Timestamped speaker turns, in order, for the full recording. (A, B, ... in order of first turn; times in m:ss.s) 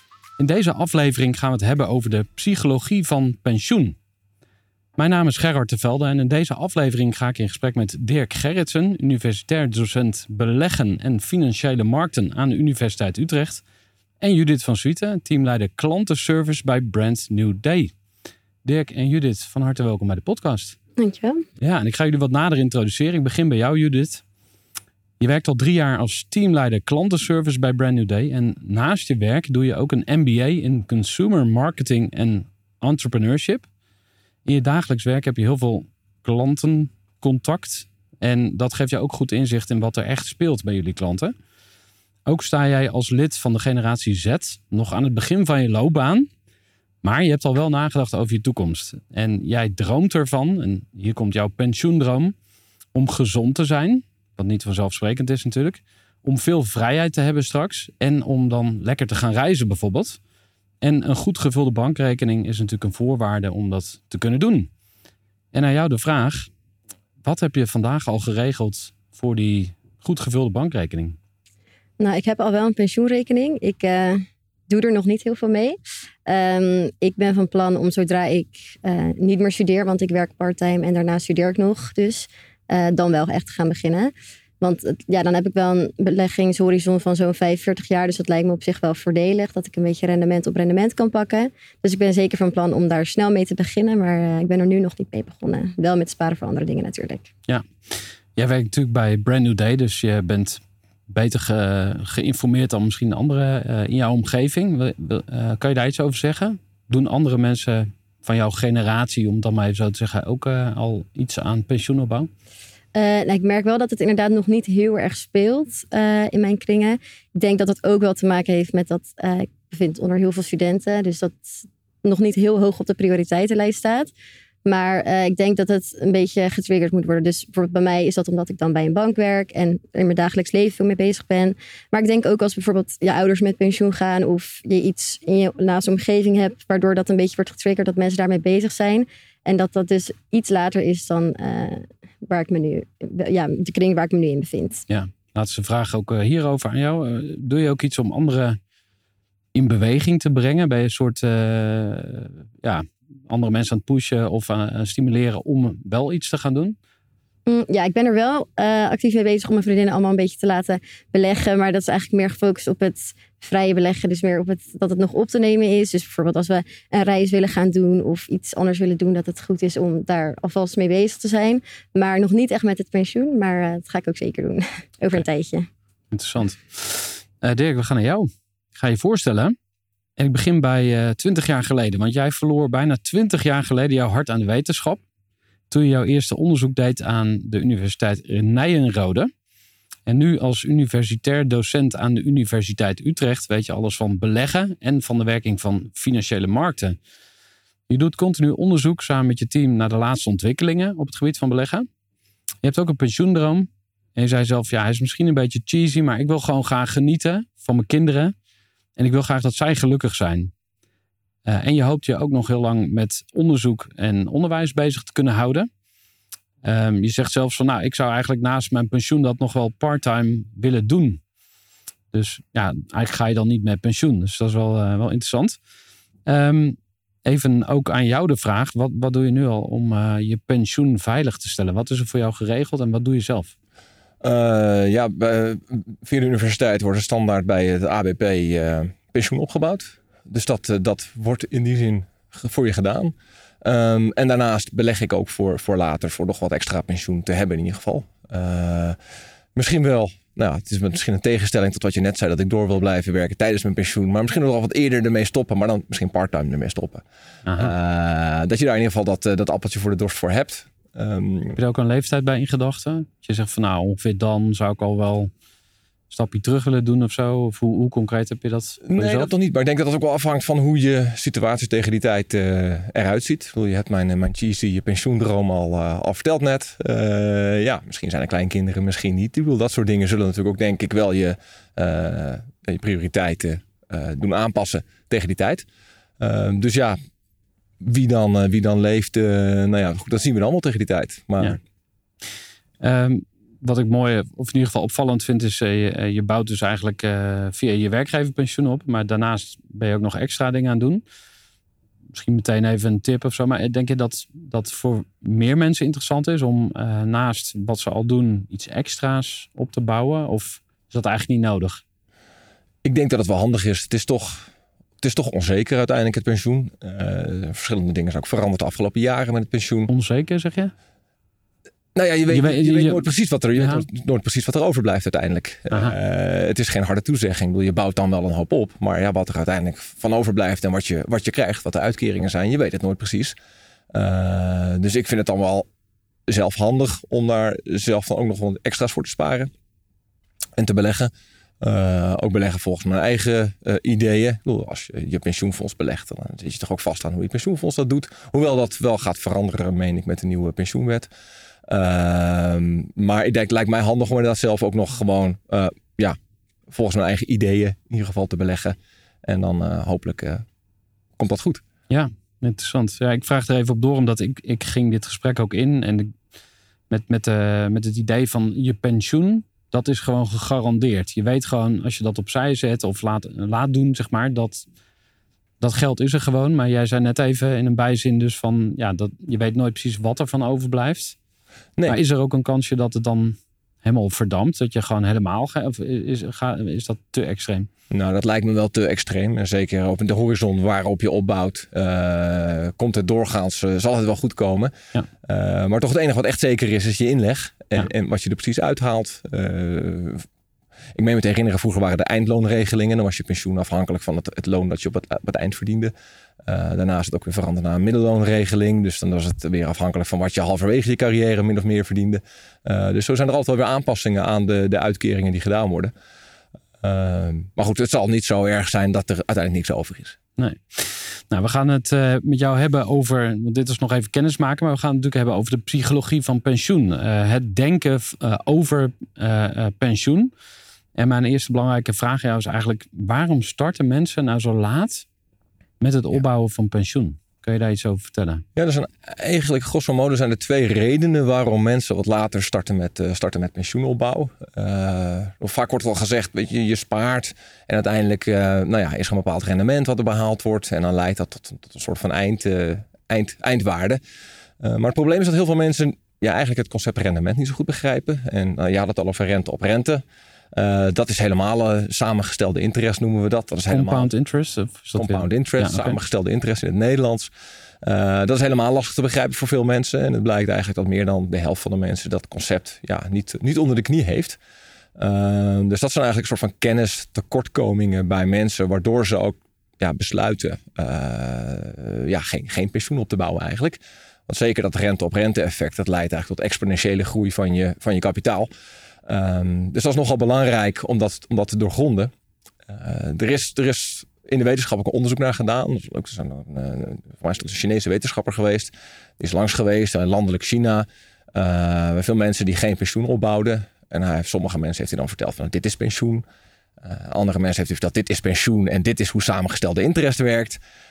0:00.4-0:04.0 A
0:05.0-0:13.6 A
0:14.2-0:17.9 A
0:18.6-0:20.8 A
0:21.0-0:21.4 B
0:21.6-0:24.2 A
0:25.2-0:33.7 A
0:34.4-0:41.3 A
0:42.2-0:46.3 A
0:47.0-0:52.3 A
0:52.9-1:00.2 A
1:00.8-1:04.7 A
1:05.5-1:06.5 A
1:07.2-1:11.2 A
1:12.0-1:37.3 B
1:37.5-1:52.3 A
1:52.9-2:04.1 B
2:04.6-2:24.8 B
2:24.9-2:28.6 A
2:29.5-2:36.7 A
2:37.5-2:55.7 B
2:56.1-2:59.5 A
3:00.2-3:05.0 A
3:05.7-3:09.3 A
3:10.1-3:17.0 A
3:17.9-3:21.9 A
3:22.6-3:28.3 A
3:29.0-3:30.5 A
3:31.4-3:35.7 A
3:36.6-3:41.2 A
3:42.1-3:45.6 A
3:46.2-3:53.5 A
3:54.2-4:09.0 C
4:09.5-4:17.0 C
4:17.4-4:17.7 A
4:17.6-4:21.6 C
4:21.6-4:25.3 A
4:26.1-4:29.3 A
4:28.8-4:45.6 C
4:46.2-4:47.0 C
4:47.8-4:51.6 C
4:52.8-5:01.0 A
5:02.1-5:11.8 A
5:12.8-5:14.5 C
5:15.0-5:19.9 C
5:19.9-5:20.7 A
5:21.9-5:33.3 C
5:22.3-5:23.8 A
5:25.7-5:26.0 A
5:33.9-5:35.7 C
5:36.3-5:39.5 C
5:40.6-5:51.1 C
5:51.7-5:56.2 C
5:56.7-6:00.4 C
6:01.2-6:01.6 C
6:01.9-6:06.2 A
6:06.9-6:14.6 A
6:15.6-6:21.2 A
6:21.8-6:27.7 A
6:27.9-6:40.2 C
6:40.9-6:45.9 C
6:46.4-6:55.9 C
6:56.8-7:00.2 C
7:00.4-7:10.3 A
7:10.9-7:15.0 A
7:15.8-7:18.4 A
7:18.5-7:34.0 C
7:34.6-7:44.1 C
7:43.7-7:46.0 A
7:44.9-7:47.3 C
7:47.8-7:54.4 C
7:55.0-8:08.5 C
8:09.0-8:12.1 C
8:12.7-8:26.2 C
8:26.8-8:30.6 C